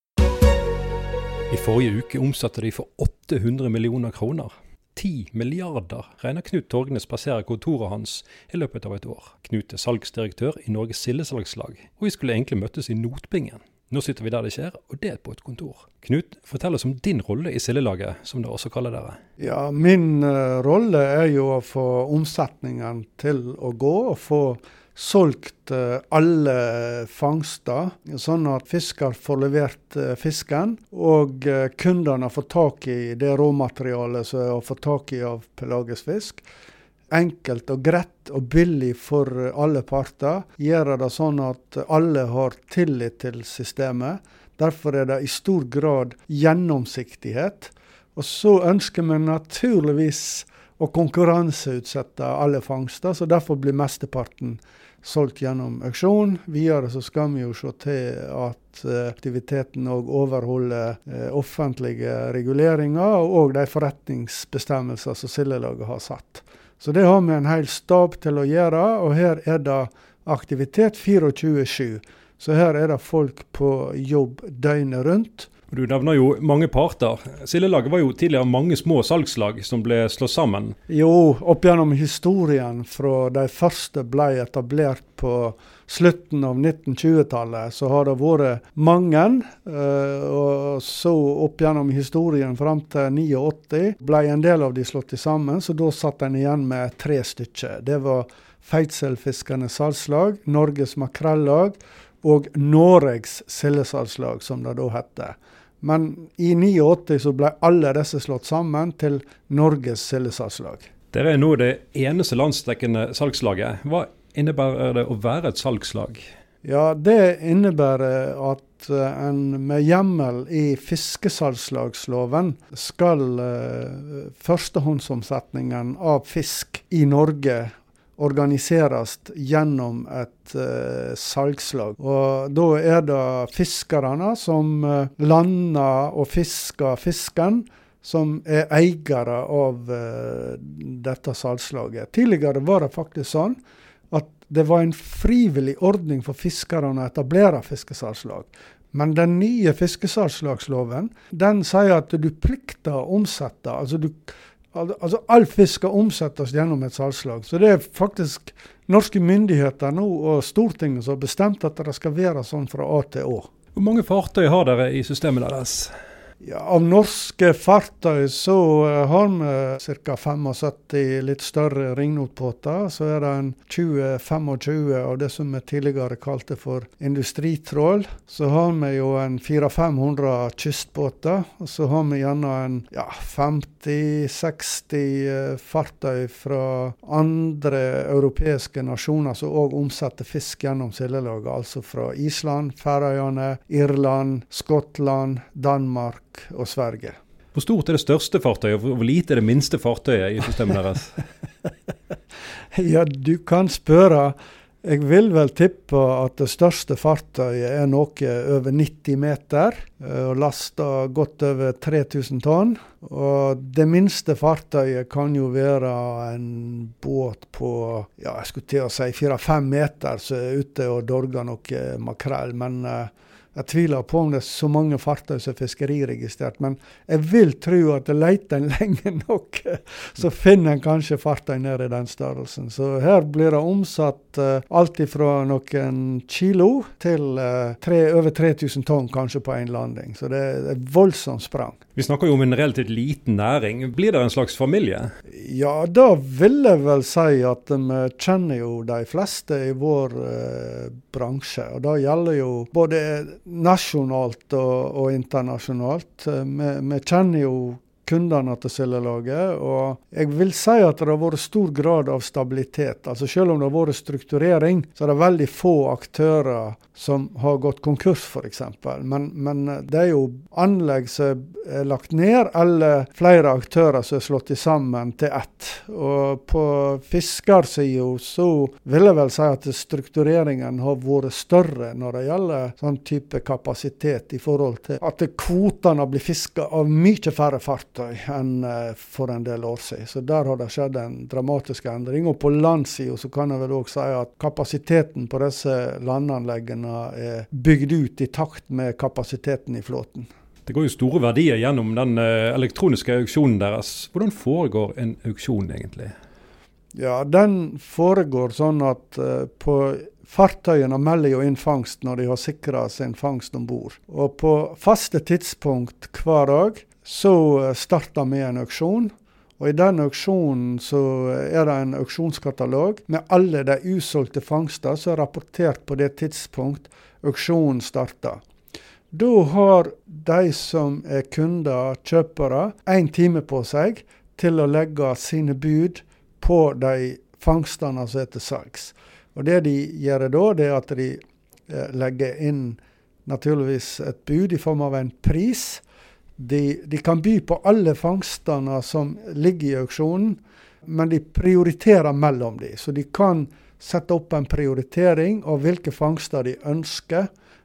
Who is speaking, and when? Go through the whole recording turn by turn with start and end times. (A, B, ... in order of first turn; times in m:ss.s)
0:01.5-0:19.2 A
0:19.4-0:36.4 B
0:37.1-1:15.5 B
1:15.7-1:20.8 A
1:20.9-1:50.9 B
1:51.1-1:56.3 A
1:56.6-2:23.6 B
2:24.1-2:43.5 B
2:43.7-2:45.9 A
2:46.4-3:17.2 B
3:17.5-3:21.2 A
3:22.7-4:01.8 B
4:01.9-4:05.1 A
4:05.3-5:00.3 B
5:00.6-5:06.1 A
5:06.9-5:28.4 B
5:29.1-5:45.8 B
5:46.4-5:57.3 B